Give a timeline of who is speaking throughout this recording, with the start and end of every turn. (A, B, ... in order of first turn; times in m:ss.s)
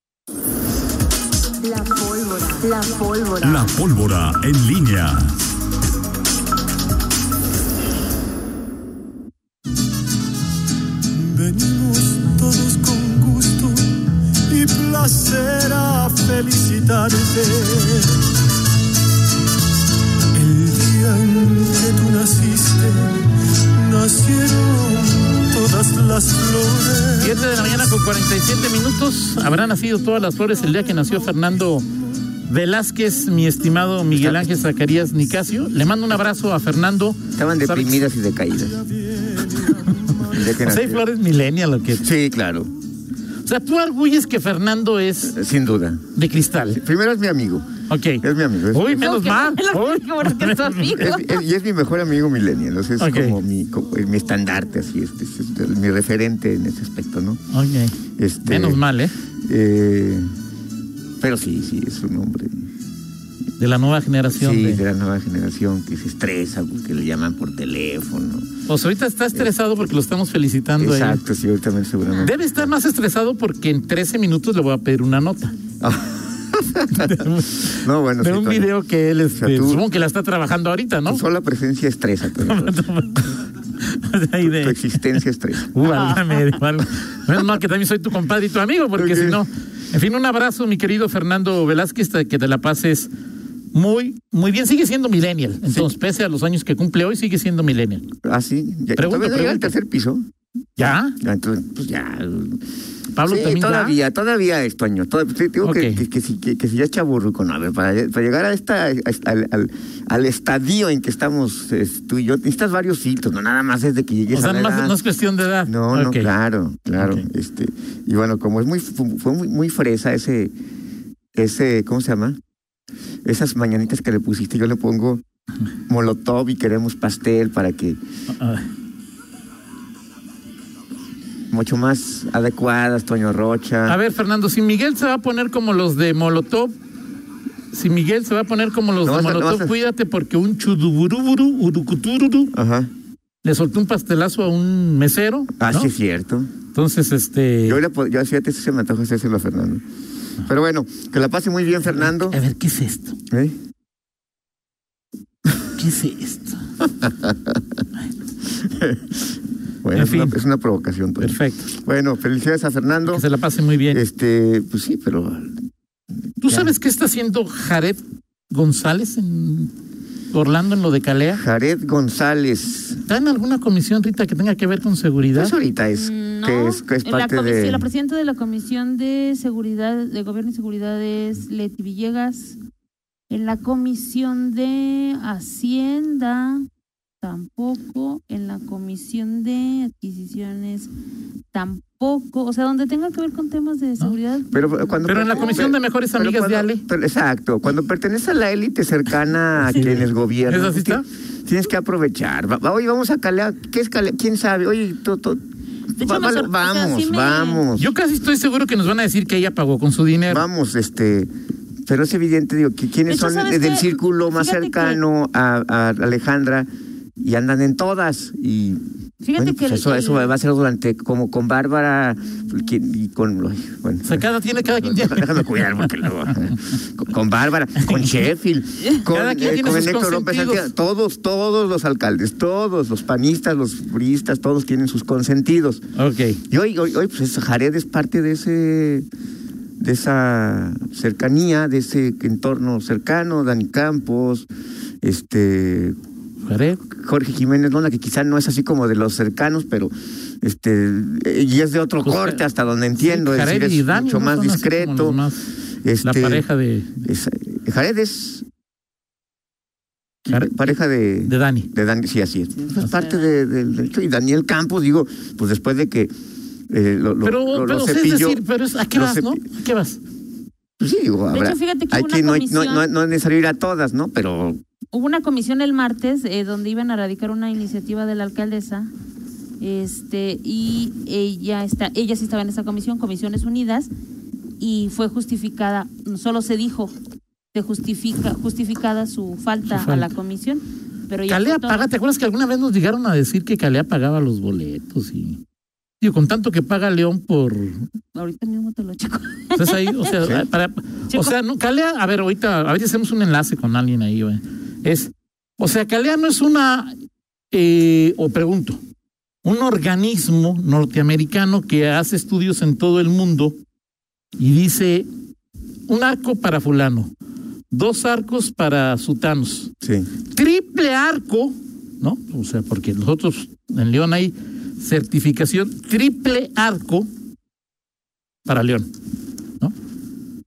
0:01.6-0:03.8 A
0:03.4-0:05.4 B
0:11.1-0:18.3 C
0:20.3-0:27.3 C
0:27.2-0:31.9 D
0:32.5-0:38.1 D
0:34.1-0:34.5 E
0:37.4-0:38.8 E
0:39.2-0:42.1 D
0:40.3-0:41.1 E
0:42.0-0:42.7 E
0:43.4-0:45.4 D
0:45.4-0:46.0 E
0:46.1-0:46.8 D
0:46.7-0:49.1 E
0:47.9-0:51.1 D
0:48.9-0:51.4 A
0:51.0-0:57.4 E
0:53.0-0:53.4 D
0:57.5-0:59.1 D
0:58.2-0:58.8 E
0:59.4-1:00.3 E
1:01.2-1:02.7 E
1:03.6-1:04.8 D
1:04.3-1:08.5 E
1:08.7-1:11.2 D
1:10.8-1:12.7 E
1:12.2-1:15.5 D
1:15.8-1:18.7 E
1:16.9-1:21.2 D
1:19.4-1:19.8 E
1:21.1-1:22.8 E
1:22.4-1:33.1 D
1:24.4-1:25.8 E
1:29.0-1:29.4 E
1:33.7-1:38.0 D
1:38.2-1:40.2 E
1:39.0-1:39.8 D
1:40.8-1:41.2 D
1:41.2-1:42.6 E
1:43.1-1:44.0 D
1:43.2-1:55.0 E
1:45.6-1:46.0 D
1:54.3-1:56.3 D
1:55.7-2:00.5 E
1:57.0-1:57.3 D
2:01.4-2:02.4 E
2:03.2-2:05.2 E
2:05.9-2:08.0 E
2:08.3-2:08.7 D
2:11.5-2:14.0 E
2:13.9-2:16.7 D
2:17.7-2:22.5 D
2:19.0-2:19.7 E
2:22.5-2:22.9 E
2:23.4-2:25.9 D
2:25.6-2:26.5 E
2:26.7-2:27.8 D
2:27.7-2:29.8 E
2:30.4-2:32.4 E
2:31.9-2:33.2 D
2:33.3-2:33.6 E
2:35.8-2:36.6 D
2:37.0-2:37.6 E
2:38.6-2:39.2 E
2:39.8-2:43.2 E
2:39.9-2:40.4 D
2:41.2-2:41.7 D
2:43.1-2:44.0 D
2:43.9-2:45.5 E
2:46.4-2:49.7 D
2:46.4-2:46.7 E
2:50.3-2:51.4 D
2:51.3-2:53.0 E
2:53.1-2:55.5 D
2:55.3-2:57.9 E
2:55.9-3:02.6 A
3:03.3-3:06.7 A
3:07.2-3:10.9 A
3:11.5-3:15.7 A
3:14.5-3:25.4 E
3:15.0-3:16.8 D
3:19.6-3:21.0 D
3:26.0-3:27.6 A
3:26.0-3:27.9 E
3:27.8-3:30.4 D
3:30.3-3:31.3 E
3:31.9-3:36.7 E
3:33.1-3:35.0 A
3:37.2-3:38.8 E
3:39.2-3:40.4 A
3:39.4-3:44.3 E
3:44.0-3:46.6 D
3:44.8-3:55.8 E
3:47.8-3:48.3 D
3:49.1-3:50.7 D
3:56.0-3:56.4 D
3:56.5-3:59.1 E
3:59.8-4:04.5 E
4:05.0-4:06.0 E
4:06.4-4:06.8 D
4:06.9-4:15.2 E
4:12.0-4:12.4 D
4:13.0-4:15.5 D
4:15.8-4:16.5 E
4:16.0-4:17.0 D
4:17.0-4:18.4 E
4:20.2-4:26.1 E
4:20.3-4:21.7 D
4:22.6-4:23.3 A
4:26.7-4:29.4 E
4:27.2-4:30.0 D
4:30.8-4:34.6 E
4:31.3-4:32.8 A
4:34.9-4:38.9 A
4:39.6-4:43.9 A
4:44.6-4:46.9 A
4:47.5-4:51.9 A
4:49.7-4:50.1 D
4:51.3-4:55.4 D
4:56.0-4:57.9 D
4:58.2-5:00.1 A
4:59.6-5:06.9 D
5:00.2-5:00.5 E
5:07.5-5:08.8 D
5:09.4-5:13.6 D
5:14.4-5:15.1 D
5:15.9-5:17.1 D
5:17.7-5:19.7 D
5:19.8-5:20.1 E
5:20.3-5:27.1 D
5:28.5-5:28.9 D